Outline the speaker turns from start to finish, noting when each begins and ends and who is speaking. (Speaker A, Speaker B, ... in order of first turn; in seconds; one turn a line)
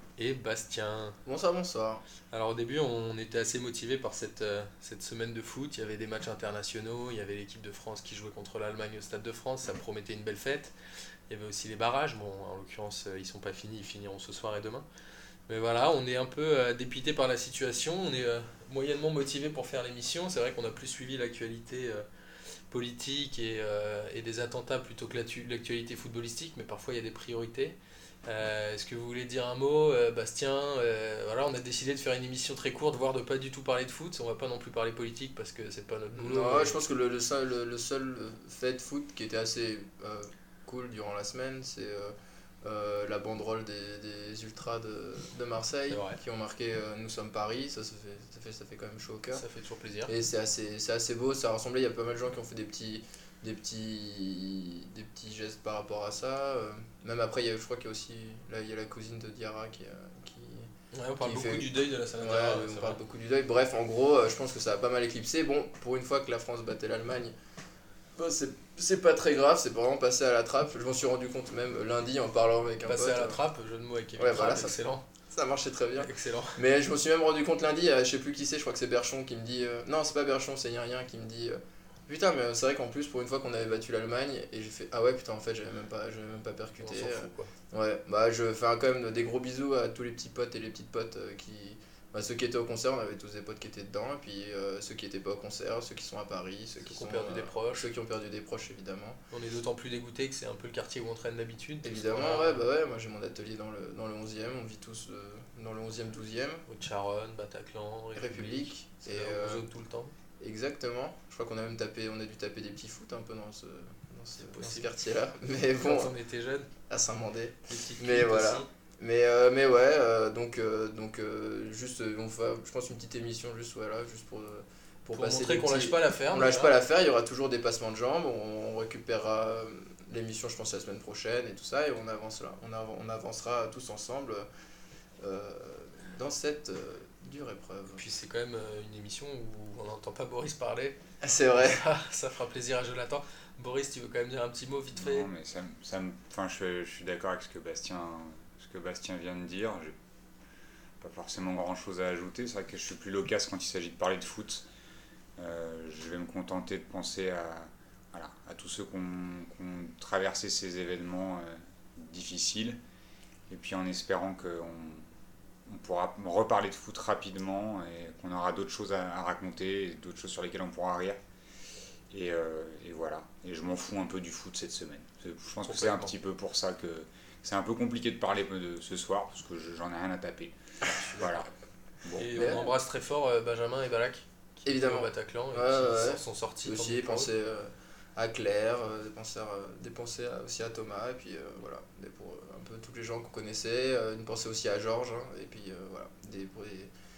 Speaker A: 0.1-1.1
Speaker B: 1.2-2.0
Speaker A: 2.3-10.7
Speaker A: 11.3-14.8
Speaker A: 15.5-22.1
Speaker A: 22.7-36.8
Speaker B: 36.2-49.4
Speaker A: 45.9-46.2
Speaker A: 49.3-50.1
Speaker B: 50.1-60.7
Speaker A: 60.9-63.0
Speaker B: 61.2-67.3
Speaker B: 68.2-73.4
Speaker A: 72.8-75.0
Speaker B: 74.2-99.2
Speaker A: 76.0-76.6
Speaker A: 86.8-87.5
Speaker A: 96.8-97.9
Speaker A: 99.3-102.6
Speaker B: 101.8-106.6
Speaker A: 106.7-110.1
Speaker B: 108.1-109.7
Speaker B: 110.4-116.1
Speaker A: 114.3-114.9
Speaker A: 115.8-116.7
Speaker B: 116.9-134.5
Speaker A: 117.7-118.7
Speaker A: 125.1-126.7
Speaker B: 135.2-138.0
Speaker A: 137.9-141.0
Speaker B: 141.2-141.8
Speaker A: 141.6-145.3
Speaker C: 144.9-149.9
Speaker C: 151.0-154.7
Speaker C: 155.4-162.8
Speaker C: 163.5-165.1
Speaker C: 165.7-171.2
Speaker C: 172.1-181.5
Speaker A: 175.6-176.1
Speaker C: 182.0-182.3
Speaker A: 182.1-187.3
Speaker B: 182.3-182.7
Speaker B: 184.7-196.9